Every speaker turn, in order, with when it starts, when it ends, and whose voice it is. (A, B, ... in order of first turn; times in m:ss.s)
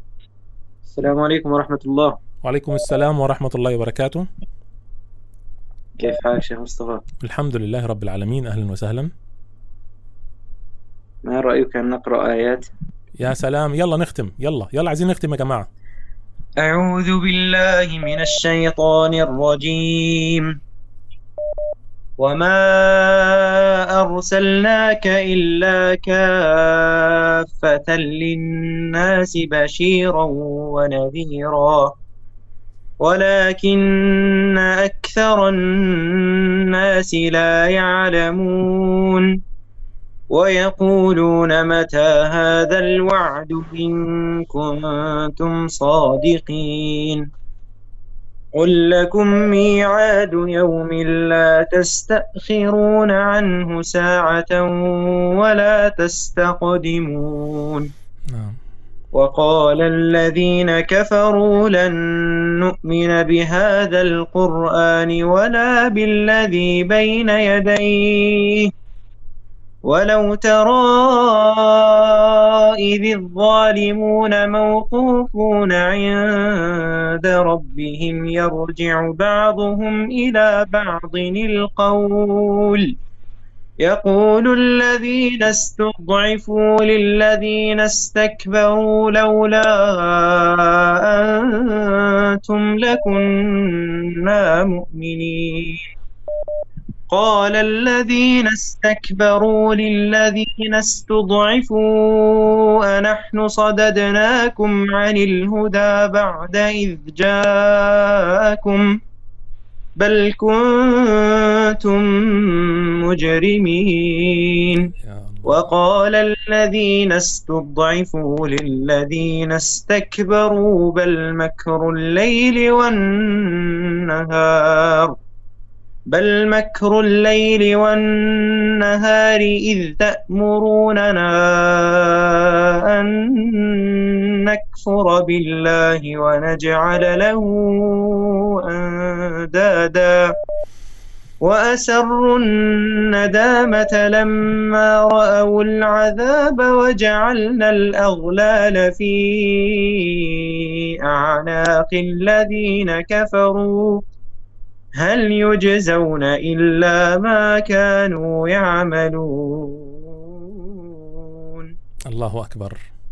0:00.8-0:02.2 A
0:02.4-0:04.3 B
0:06.0-0:07.0 A
0:07.2-0:09.1 B
0:11.2-0:12.7 A
0:13.2-0:15.7 B
0:16.6-0:20.5 A
0:22.2-0:31.9 A
0:33.0-0:39.2 A
0:40.3-0:47.2 A
0:48.5-0:57.9 A
0:58.3-0:58.6 B
0:59.1-1:08.7 A
1:09.9-1:22.9 A
1:23.8-1:35.8 A
1:37.1-1:48.9 A
1:50.0-1:54.9 A
1:55.0-1:55.6 B
1:55.4-2:05.2 A
2:06.1-2:20.3 A
2:21.4-2:34.0 A
2:35.0-2:41.7 A
2:42.1-2:42.8 B